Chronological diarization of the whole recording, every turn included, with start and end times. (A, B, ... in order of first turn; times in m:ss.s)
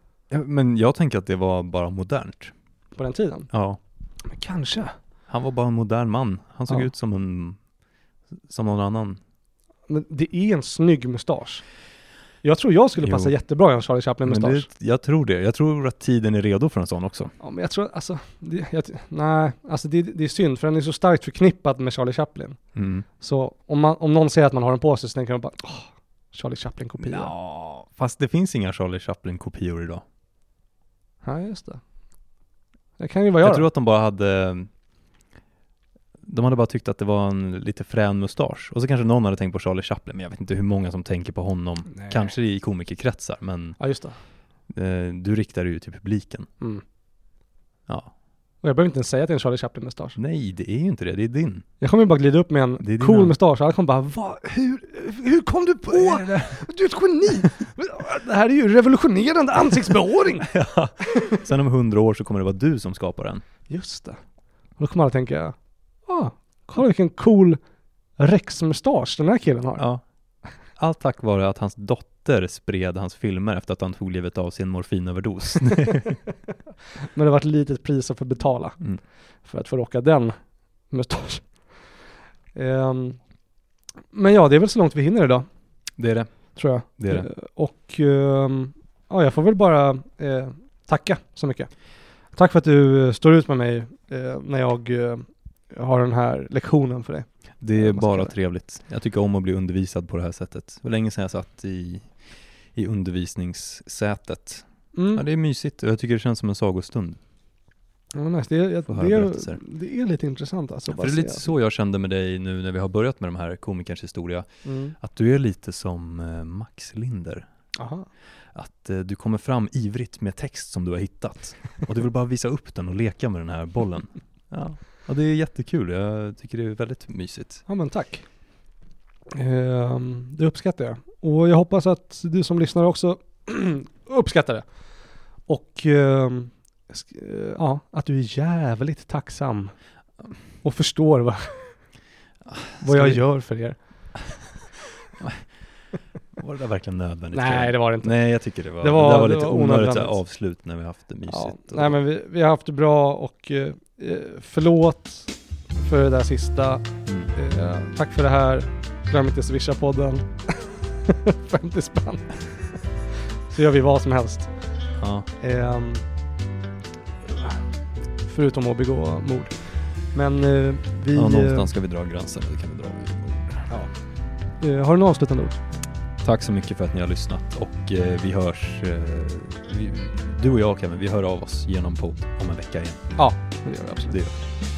0:00.3-0:02.5 A
0:03.0-0:03.5 B
0:03.5-0:03.8 A
0:04.2-0:05.0 B
0:05.3-0:07.6 A
0:08.3-0:09.2 A
0:09.9-0:11.6 B
0:12.4-0:14.7 B
0:13.0-0:13.3 A
0:14.2-0:17.3 A
0:17.4-0:22.6 B
0:22.7-0:23.0 A
0:23.1-0:27.3 B
0:27.0-0:30.0 A
0:31.2-0:31.8 B
0:33.0-0:33.7 B
0:33.4-0:34.7 A
0:36.2-0:43.8 A
0:41.9-0:42.3 B
0:43.8-0:44.2 B
0:44.7-0:46.5 A
0:47.9-0:48.1 A
0:48.6-0:50.2 B
0:50.2-0:51.6 A
0:51.8-1:00.5 B
0:52.8-0:53.4 A
0:55.9-0:56.6 A
1:00.4-1:03.4 A
1:03.7-1:04.2 B
1:04.8-1:07.6 B
1:08.2-1:09.8 B
1:10.6-1:16.2 A
1:17.1-1:18.9 B
1:19.4-1:20.4 B
1:20.9-1:21.7 B
1:22.5-1:23.2 B
1:24.1-1:25.4 B
1:26.0-1:27.3 A
1:26.5-1:31.7 B
1:32.3-1:38.3 B
1:37.6-1:47.2 A
1:44.9-1:45.2 B
1:48.1-1:51.4 B
1:48.9-1:49.6 A
1:50.9-1:57.4 A
1:54.6-1:55.0 B
1:57.8-1:58.1 B
1:58.5-2:07.6 A
2:07.7-2:08.3 B
2:09.3-2:14.7 B
2:15.5-2:19.8 B
2:20.6-2:21.8 B
2:22.4-2:23.2 A
2:22.8-2:23.8 B
2:25.2-2:25.5 A
2:26.3-2:32.0 A
2:27.3-2:30.2 B
2:31.3-2:42.8 B
2:37.0-2:37.3 A
2:43.5-2:44.5 B
2:45.0-2:45.3 A
2:45.4-2:46.0 B
2:48.2-2:51.7 B
2:51.1-2:53.6 A
2:54.6-2:55.6 B
2:56.2-3:03.2 A
3:03.2-3:04.2 B
3:04.1-3:04.4 A